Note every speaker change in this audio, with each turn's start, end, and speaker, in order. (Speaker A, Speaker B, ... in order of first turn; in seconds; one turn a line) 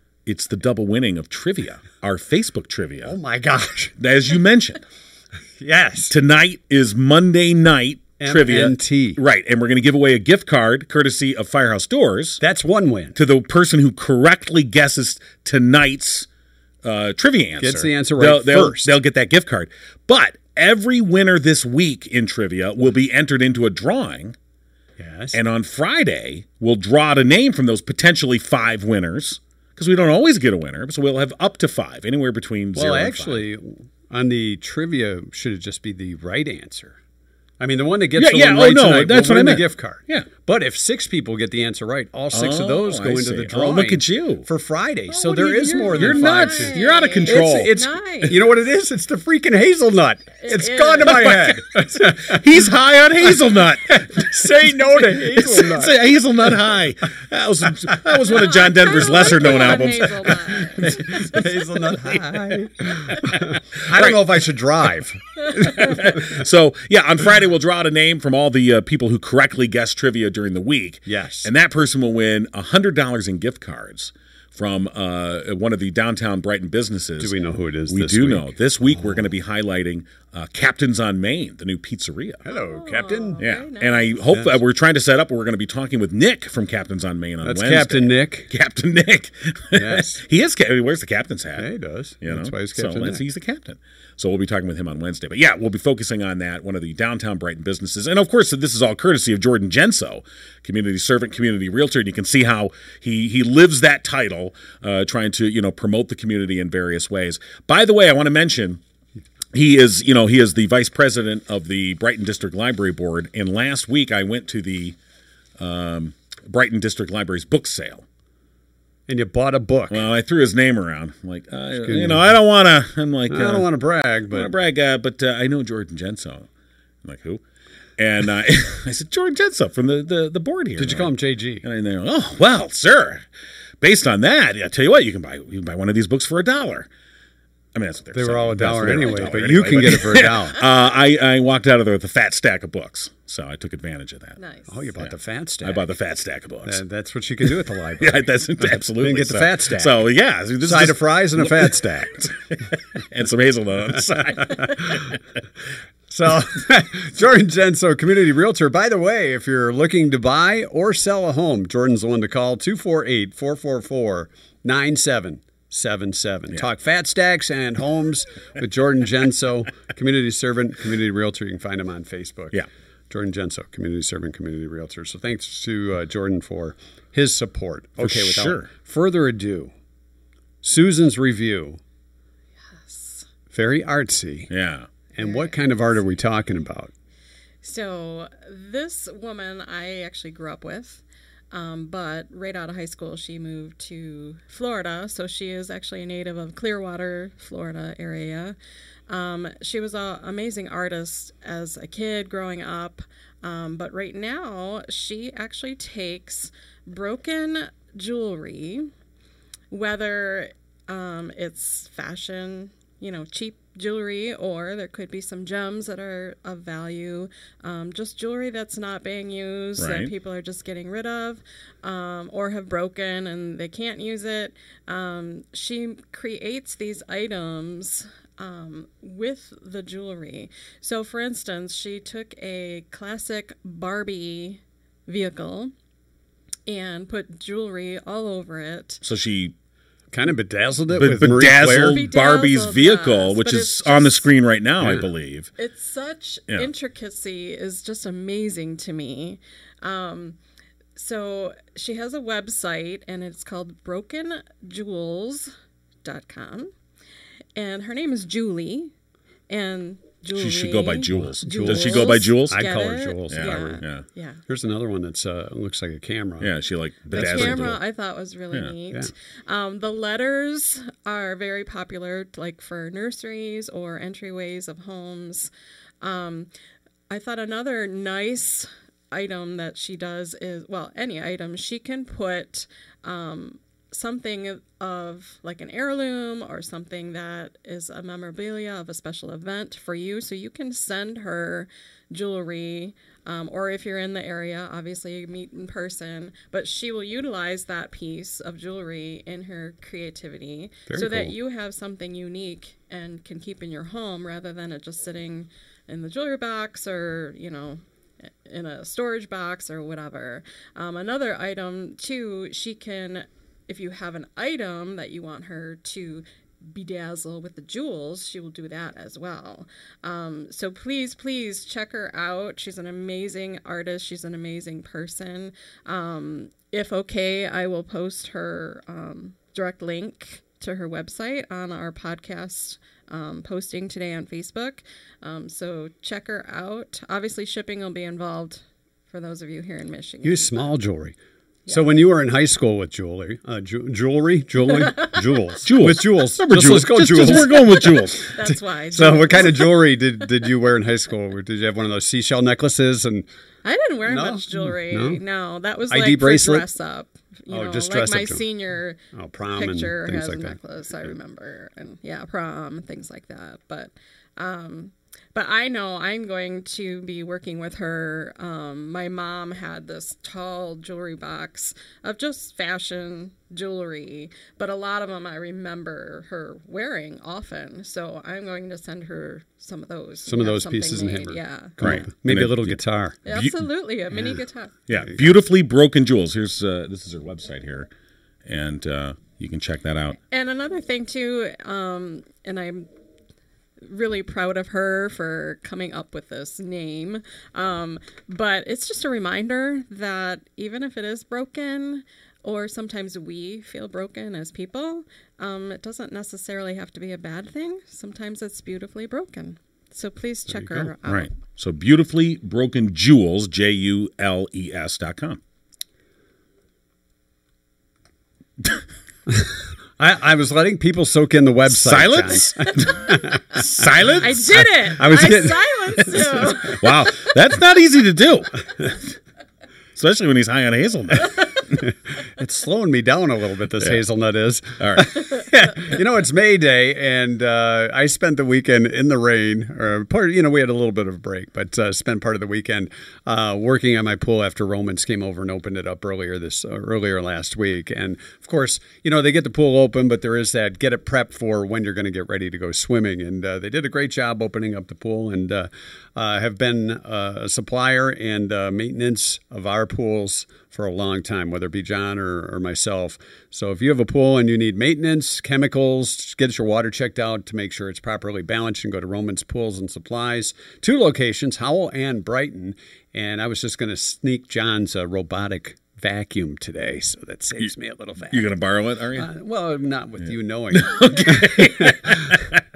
Speaker A: 0.2-3.1
Speaker B: 3.0-3.9
Speaker A: 4.0-4.8
Speaker B: 5.6-6.1
Speaker A: 6.1-12.4
Speaker B: 8.2-9.2
Speaker B: 12.4-13.2
Speaker A: 13.1-16.3
Speaker A: 16.8-24.4
Speaker B: 17.6-18.9
Speaker B: 25.0-25.4
Speaker A: 25.3-33.4
Speaker B: 32.7-37.0
Speaker B: 37.6-52.5
Speaker A: 38.2-40.3
Speaker A: 42.3-44.5
Speaker C: 45.1-48.4
Speaker A: 45.7-47.7
Speaker C: 50.4-51.5
Speaker A: 51.1-62.2
Speaker B: 53.8-55.9
Speaker C: 58.3-61.3
Speaker B: 60.6-66.3
Speaker A: 63.1-64.2
Speaker A: 65.5-77.3
Speaker B: 71.0-71.5
Speaker B: 77.2-79.2
Speaker A: 77.9-82.4
Speaker B: 82.4-83.4
Speaker C: 82.5-84.2
Speaker A: 83.4-91.7
Speaker B: 84.3-84.6
Speaker B: 87.4-88.5
Speaker B: 89.7-90.2
Speaker B: 91.6-93.2
Speaker A: 92.2-108.8
Speaker A: 109.5-115.0
Speaker A: 115.6-118.0
Speaker B: 119.1-120.0
Speaker A: 119.9-123.7
Speaker B: 121.8-122.3
Speaker B: 123.3-124.5
Speaker A: 124.3-126.5
Speaker A: 127.0-127.4
Speaker A: 128.0-131.1
Speaker B: 130.8-131.6
Speaker A: 131.6-133.2
Speaker A: 133.8-136.9
Speaker A: 137.7-144.4
Speaker B: 138.1-140.6
Speaker C: 144.4-144.7
Speaker B: 144.7-145.8
Speaker A: 145.6-146.8
Speaker B: 146.7-150.0
Speaker A: 148.0-155.2
Speaker B: 150.6-152.3
Speaker B: 154.5-154.8
Speaker B: 156.1-179.7
Speaker A: 178.0-178.7
Speaker B: 180.6-181.8
Speaker C: 182.8-183.2
Speaker B: 183.5-184.5
Speaker A: 184.5-184.9
Speaker B: 185.1-186.9
Speaker C: 185.2-185.7
Speaker C: 187.6-198.6
Speaker C: 199.1-208.9
Speaker C: 209.7-235.7
Speaker A: 219.8-220.1
Speaker C: 236.7-239.0
Speaker A: 239.0-239.5
Speaker B: 240.1-242.0
Speaker A: 240.9-245.5
Speaker C: 241.9-244.3
Speaker B: 244.8-245.1
Speaker C: 245.6-250.4
Speaker C: 250.9-255.5
Speaker C: 256.0-256.7
Speaker C: 257.5-258.9
Speaker C: 259.5-264.4
Speaker A: 260.3-262.7
Speaker B: 261.2-263.8
Speaker A: 263.3-264.0
Speaker B: 264.5-266.5
Speaker A: 266.4-267.8
Speaker C: 267.1-275.5
Speaker B: 267.1-267.7
Speaker C: 276.0-276.5
Speaker C: 277.1-307.8
Speaker B: 300.9-301.3
Speaker C: 308.4-340.5
Speaker B: 340.2-341.1
Speaker B: 341.7-353.2
Speaker A: 345.6-348.3
Speaker C: 347.9-349.8
Speaker C: 353.6-359.0
Speaker B: 354.1-355.2
Speaker B: 355.9-356.6
Speaker B: 357.5-358.4
Speaker B: 359.1-360.6
Speaker C: 359.5-382.0
Speaker B: 380.2-383.2
Speaker A: 381.8-383.6
Speaker C: 383.2-384.8
Speaker A: 384.9-387.9
Speaker A: 388.4-390.2
Speaker C: 390.3-392.9
Speaker C: 393.8-411.3
Speaker B: 410.5-410.9
Speaker A: 411.0-415.4
Speaker B: 419.3-423.6
Speaker A: 421.7-424.9
Speaker C: 424.2-427.1
Speaker B: 425.0-426.4
Speaker A: 426.2-429.1
Speaker A: 429.9-431.8
Speaker B: 431.9-478.5
Speaker A: 434.8-435.2
Speaker A: 478.3-479.3
Speaker B: 479.1-482.4
Speaker A: 480.7-482.6